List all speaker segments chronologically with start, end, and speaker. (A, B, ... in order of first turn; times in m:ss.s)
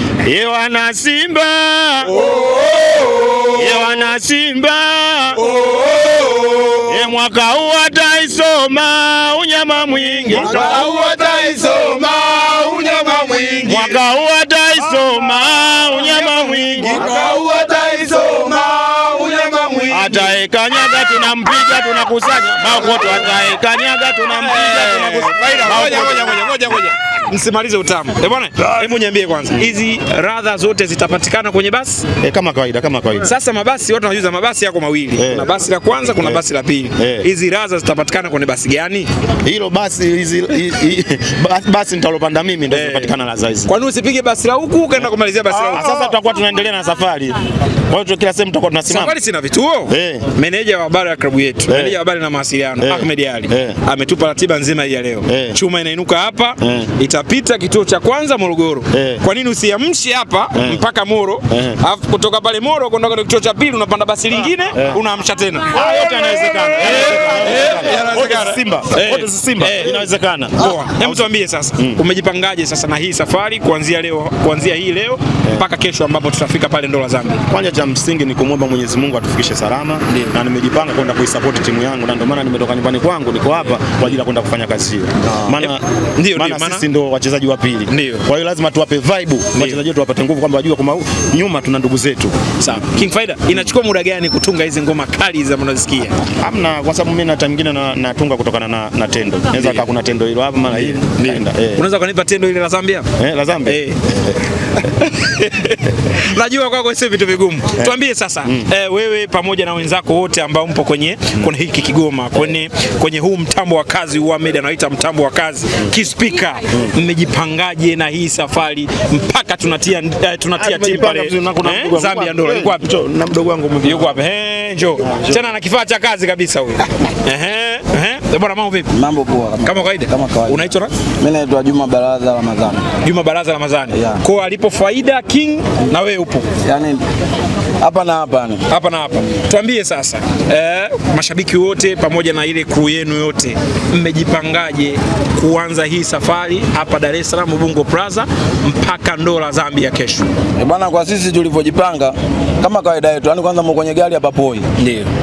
0:00.2-0:02.3 A
0:02.2-0:03.4 B
0:03.5-0:05.5 A
0:05.4-0:06.8 B
0:06.8-0:11.0 A
0:10.3-0:14.0 B
0:13.6-0:17.1 A
0:16.2-0:20.3 B
0:19.9-0:26.8 A
0:22.8-0:23.3 B
0:24.2-0:32.0 B
0:32.2-0:33.3 A
0:33.2-0:39.1 B
0:35.2-0:35.5 A
0:36.0-0:36.4 A
0:37.0-0:37.3 A
0:39.4-0:43.7 A
0:42.7-0:46.0 B
0:45.5-0:49.2 A
0:48.9-1:05.8 B
0:49.9-0:50.2 A
0:51.7-0:52.0 A
0:52.8-0:53.8 A
0:55.3-0:55.6 A
0:56.6-0:56.9 A
0:58.9-0:59.2 A
1:00.5-1:00.8 A
1:01.5-1:01.8 A
1:04.8-1:05.0 A
1:05.7-1:12.0 A
1:06.5-1:17.4 B
1:17.5-1:32.5 A
1:25.5-1:26.9 B
1:27.9-1:28.2 B
1:29.5-1:29.8 B
1:32.6-1:36.2 B
1:36.4-1:41.8 A
1:39.5-1:39.8 B
1:40.7-1:43.1 B
1:43.2-1:43.8 A
1:43.6-1:44.0 B
1:44.7-2:02.8 B
1:47.8-1:48.7 A
2:00.6-2:04.2 A
2:03.8-2:08.9 B
2:05.1-2:05.5 A
2:08.9-2:12.9 C
2:09.6-2:10.9 B
2:13.0-2:16.5 B
2:13.9-2:14.2 C
2:16.6-2:17.0 C
2:17.8-2:18.7 C
2:18.7-2:30.3 B
2:30.6-2:34.7 C
2:34.8-2:35.1 B